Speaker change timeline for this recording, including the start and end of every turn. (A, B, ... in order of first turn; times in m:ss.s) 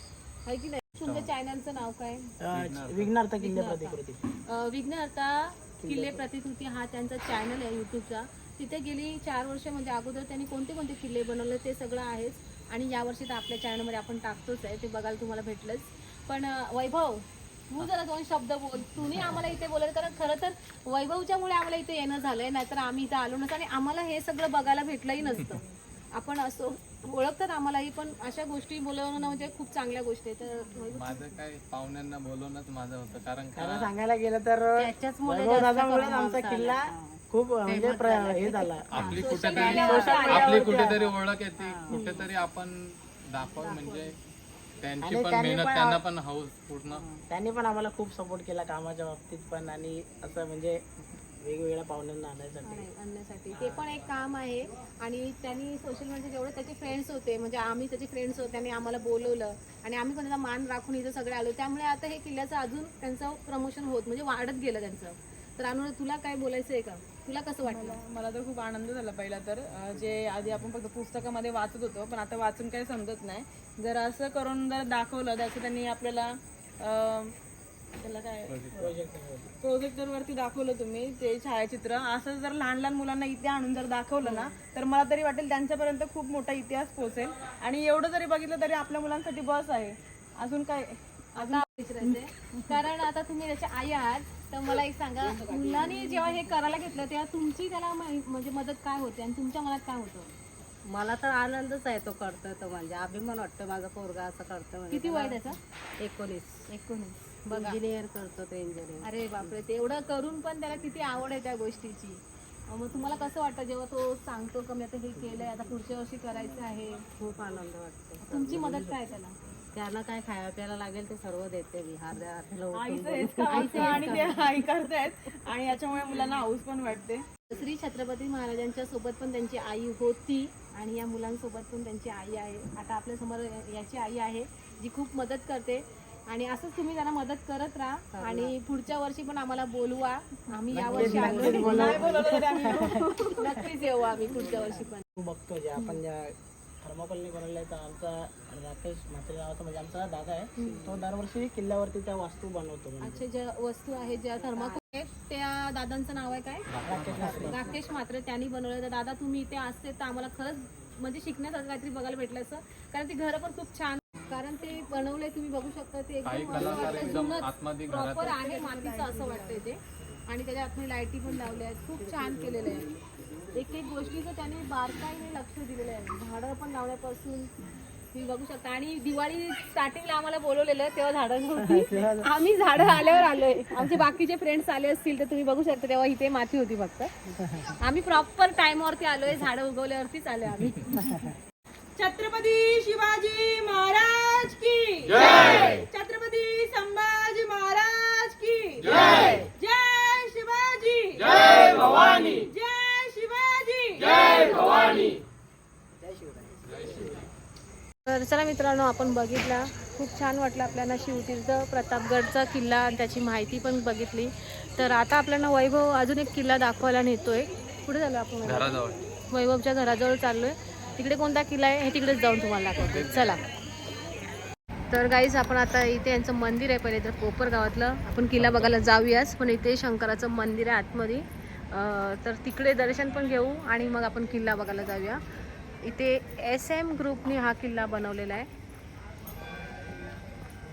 0:00.4-0:02.3 A
0:01.0-0:01.3 B
0:02.4-0:04.2 C
0:02.5-0:03.1 B
0:03.4-0:25.6 A
0:05.8-0:06.2 C
0:26.1-0:31.3 A
0:30.9-0:33.9 B
0:33.6-0:41.1 C
0:34.8-0:36.6 A
0:35.5-0:39.2 D
0:37.7-0:38.0 A
0:38.9-0:44.2 B
0:39.1-0:40.9 A
0:39.7-0:40.0 E
0:41.6-0:42.2 D
0:41.9-0:42.2 A
0:43.6-0:44.0 A
0:44.8-0:47.0 B
0:45.0-0:46.0 C
0:46.9-0:47.2 D
0:47.3-0:50.8 C
0:51.4-0:52.9 C
0:52.6-1:08.0 A
1:07.6-1:17.3 E
1:18.0-1:18.6 E
1:18.5-1:18.8 B
1:18.7-1:19.5 C
1:19.6-1:32.7 E
1:24.2-1:24.5 A
1:31.4-1:40.3 A
1:35.3-1:36.0 D
1:40.9-1:46.7 D
1:44.9-1:45.6 A
1:46.7-1:47.8 A
1:47.5-1:49.5 D
1:49.0-1:57.0 A
1:57.2-1:59.0 D
1:58.2-1:59.4 A
1:59.7-2:04.3 D
2:02.7-2:07.2 E
2:03.5-2:04.5 A
2:07.5-2:25.0 A
2:18.2-2:18.5 D
2:20.7-2:23.0 C
2:20.8-2:23.2 E
2:25.1-2:33.2 C
2:30.6-2:30.8 A
2:33.0-2:36.6 A
2:36.7-2:37.6 B
2:36.8-2:37.8 C
2:37.5-2:52.8 A
2:46.2-2:48.4 B
2:48.2-2:49.6 E
2:53.5-2:57.5 A
2:58.1-3:07.1 A
3:01.6-3:02.3 C
3:07.8-3:11.2 A
3:12.0-3:25.0 E
3:26.0-3:27.2 C
3:26.7-3:27.0 B
3:28.0-3:38.8 A
3:38.4-3:39.0 B
3:39.3-3:43.4 A
3:42.8-3:43.4 B
3:44.9-3:55.2 A
3:48.4-3:48.7 B
3:55.8-3:58.5 A